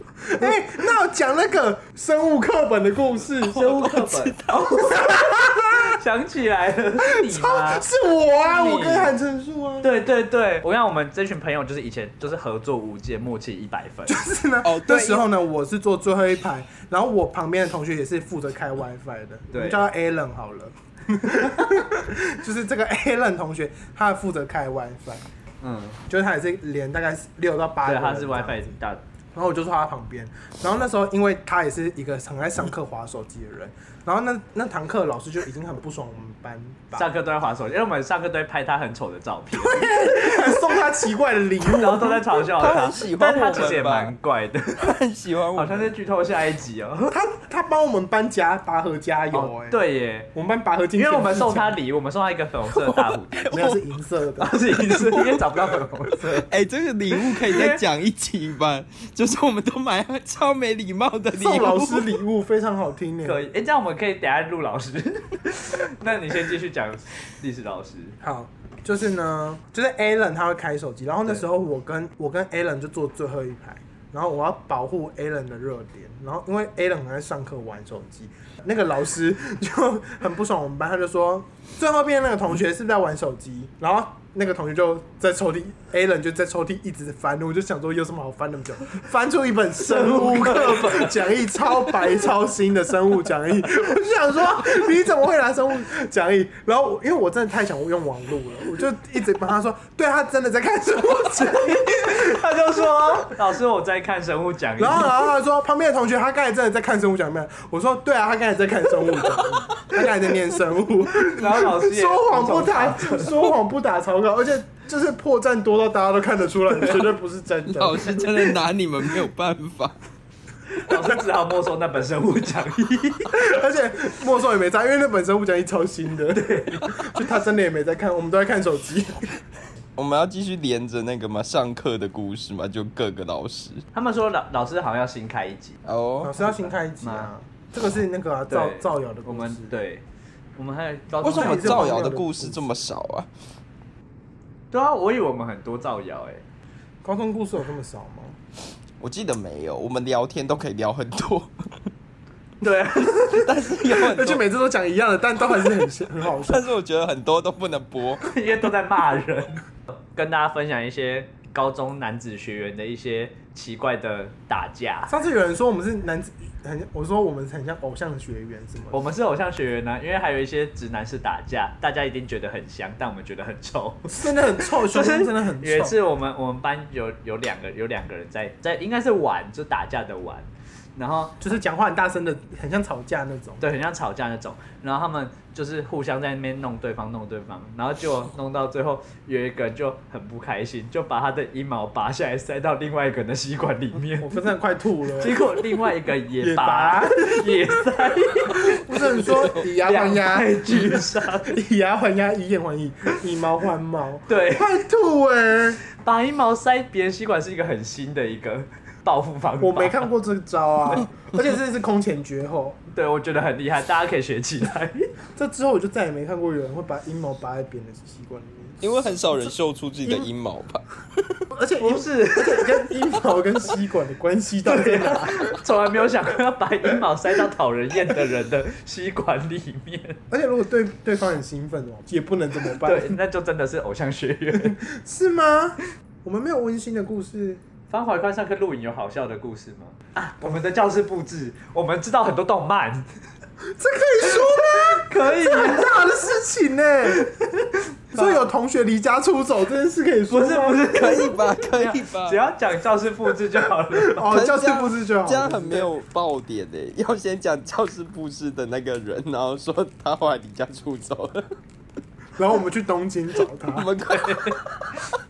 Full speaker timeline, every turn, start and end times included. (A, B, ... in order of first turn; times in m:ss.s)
0:00.3-0:03.6 A
0:03.4-0:04.9 B
0:03.4-0:09.1 C
0:04.9-0:06.0 A
0:07.2-0:09.9 A
0:09.8-0:14.2 C
0:14.0-0:25.2 A
0:14.6-0:15.2 B
0:19.5-0:19.8 C
0:25.6-0:26.0 C
0:26.1-0:28.8 A
0:27.8-0:29.0 C
0:29.3-0:37.0 A
0:36.9-0:40.5 C
0:39.5-0:42.2 A
0:41.6-0:45.0 C
0:42.6-0:44.1 B
0:44.8-0:45.9 B
0:45.5-0:47.2 C
0:47.1-0:49.8 A
0:49.3-0:50.3 C
0:50.3-0:51.8 A
0:51.0-0:53.7 C
0:52.7-0:53.8 B
0:53.5-0:54.6 A
0:54.4-0:56.5 C
0:54.7-1:02.2 B
0:57.3-0:57.8 C
1:01.3-1:03.4 A
1:03.2-1:08.2 C
1:08.2-1:42.4 A
1:29.8-1:31.3 C
1:41.4-1:45.2 C
1:43.0-1:43.3 A
1:44.8-1:58.6 A
1:51.2-1:53.3 C
1:57.7-1:59.9 B
2:00.7-2:03.3 C
2:03.3-2:09.4 A
2:06.3-2:07.0 C
2:10.0-2:13.8 B
2:13.9-2:15.8 C
2:15.8-2:16.4 B
2:16.2-2:19.7 A
2:17.0-2:17.3 C
2:18.5-2:20.0 C
2:20.6-2:22.1 C
2:21.2-2:22.6 A
2:21.2-2:23.3 B
2:24.7-2:26.4 C
2:27.0-2:28.4 A
2:29.0-2:31.9 B
2:32.6-2:33.4 C
2:33.3-2:34.4 B
2:33.9-2:36.7 A
2:36.4-2:38.2 B
2:38.2-2:45.1 C
2:45.1-2:49.0 A
2:48.9-3:01.4 C
2:54.0-2:56.0 A
3:01.4-3:03.6 A
3:03.6-3:14.3 C
3:14.2-3:15.4 A
3:15.2-3:21.6 C
3:16.4-3:17.5 A
3:18.7-3:25.8 A
3:19.0-3:19.6 B
3:24.3-3:24.8 C
3:26.0-3:30.1 C
3:29.6-3:32.8 A
3:32.9-3:35.1 C
3:35.4-3:38.8 A
3:38.8-3:41.4 B
3:41.5-3:45.5 A
3:41.8-3:42.8 C
3:44.6-3:50.2 C
3:50.3-3:53.2 A
3:52.8-3:54.8 C
3:54.5-3:57.6 A
3:57.9-4:03.1 C
4:03.6-4:07.2 A
4:04.3-4:06.0 C
4:07.2-4:08.4 C
4:08.1-4:10.8 A
4:10.3-4:14.3 C
4:10.9-4:12.4 B
4:14.0-4:15.9 A
4:14.3-4:21.5 B
4:22.4-4:23.9 A
4:23.7-4:25.0 B
4:24.1-4:24.6 C